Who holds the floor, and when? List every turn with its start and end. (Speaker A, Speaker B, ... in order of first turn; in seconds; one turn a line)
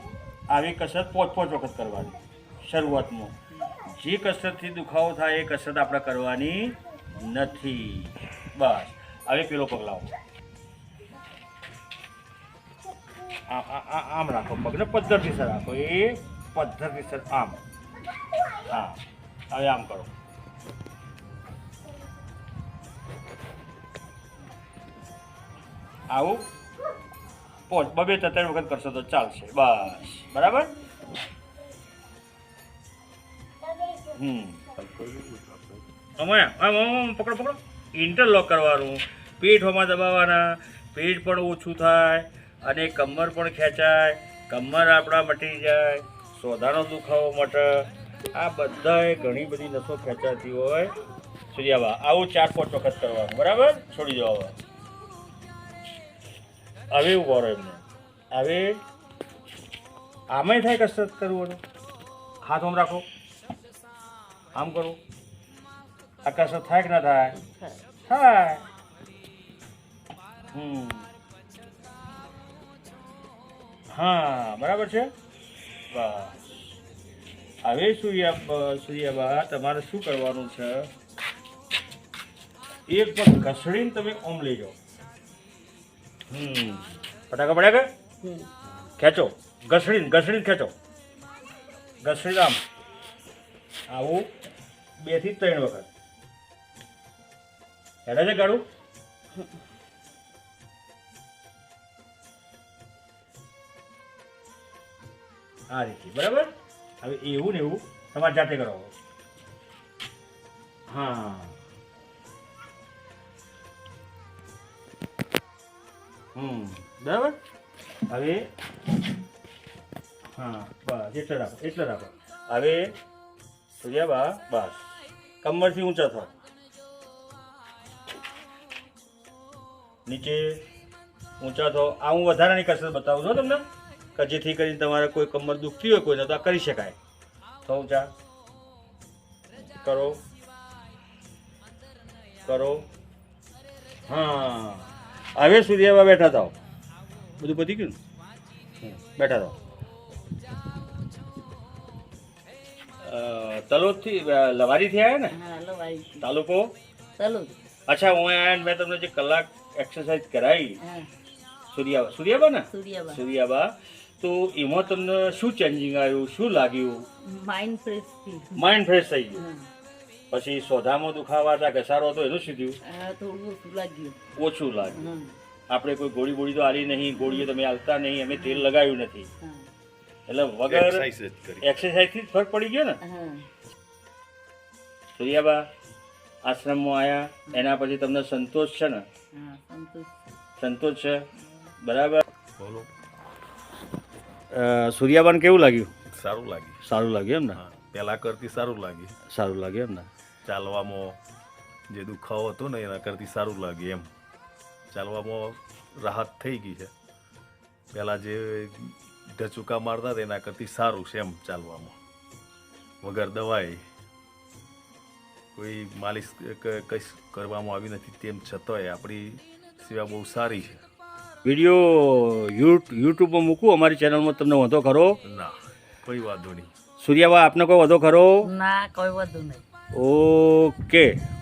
Speaker A: 0.5-10.1
Speaker A: 13.5-17.6
Speaker A: 18.7-19.0
Speaker A: 19.5-20.1
Speaker A: 26.1-26.4
Speaker A: 27.7-30.7
Speaker A: 34.1-34.6
Speaker B: 34.7-35.8
Speaker A: 36.2-50.9
Speaker A: 51.5-54.5
Speaker A: 56.9-58.8
Speaker A: 60.3-61.6
Speaker A: 62.4-63.1
Speaker A: 64.5-65.0
Speaker A: 66.2-67.4
Speaker C: 67.4-67.8
Speaker A: 68.1-68.7
Speaker A: 70.5-71.1
Speaker A: 73.9-75.1
Speaker A: 75.9-76.8
Speaker A: 77.6-80.9
Speaker A: 82.9-84.8
Speaker A: 86.3-87.9
Speaker C: 88.2-88.5
Speaker A: 89.0-90.7
Speaker A: 92.0-92.6
Speaker A: 93.9-94.3
Speaker A: 95.0-95.9
Speaker A: 98.0-98.7
Speaker A: 105.7-108.9
Speaker A: 110.9-111.6
Speaker A: 116.3-117.4
Speaker A: 118.1-118.5
Speaker A: 120.3-123.0
Speaker A: 123.7-126.3
Speaker A: 130.1-130.7
Speaker A: 131.4-137.0
Speaker A: 137.6-138.1
Speaker A: 139.8-140.2
Speaker A: 142.4-142.9
Speaker A: 144.1-146.6
Speaker A: 147.4-148.0
Speaker A: 148.9-149.6
Speaker A: 153.0-155.4
Speaker C: 155.3-156.3
Speaker A: 156.2-156.8
Speaker C: 157.2-157.6
Speaker A: 157.9-160.8
Speaker C: 160.8-161.1
Speaker A: 161.7-167.1
Speaker C: 162.7-163.2
Speaker C: 167.2-168.6
Speaker A: 168.6-169.5
Speaker C: 169.4-169.7
Speaker A: 170.3-172.8
Speaker C: 172.8-174.2
Speaker A: 174.3-175.1
Speaker C: 174.9-175.4
Speaker A: 175.7-179.3
Speaker C: 179.4-179.7
Speaker A: 180.3-181.1
Speaker B: 180.7-181.8
Speaker A: 181.6-183.0
Speaker C: 183.0-183.5
Speaker A: 185.1-185.7
Speaker A: 186.4-189.1
Speaker C: 189.3-190.1
Speaker A: 190.6-191.2
Speaker A: 191.8-192.2
Speaker B: 192.6-192.9
Speaker A: 194.5-195.9
Speaker B: 196.1-196.8
Speaker A: 196.8-197.6
Speaker B: 197.6-199.1
Speaker A: 199.3-200.1
Speaker B: 200.5-201.2
Speaker B: 201.9-204.1
Speaker B: 204.9-206.9
Speaker B: 207.9-212.0
Speaker B: 213.0-213.8
Speaker B: 215.6-220.8
Speaker A: 221.4-225.2
Speaker B: 225.2-226.7
Speaker A: 227.0-228.5
Speaker C: 228.4-229.6
Speaker A: 229.9-231.2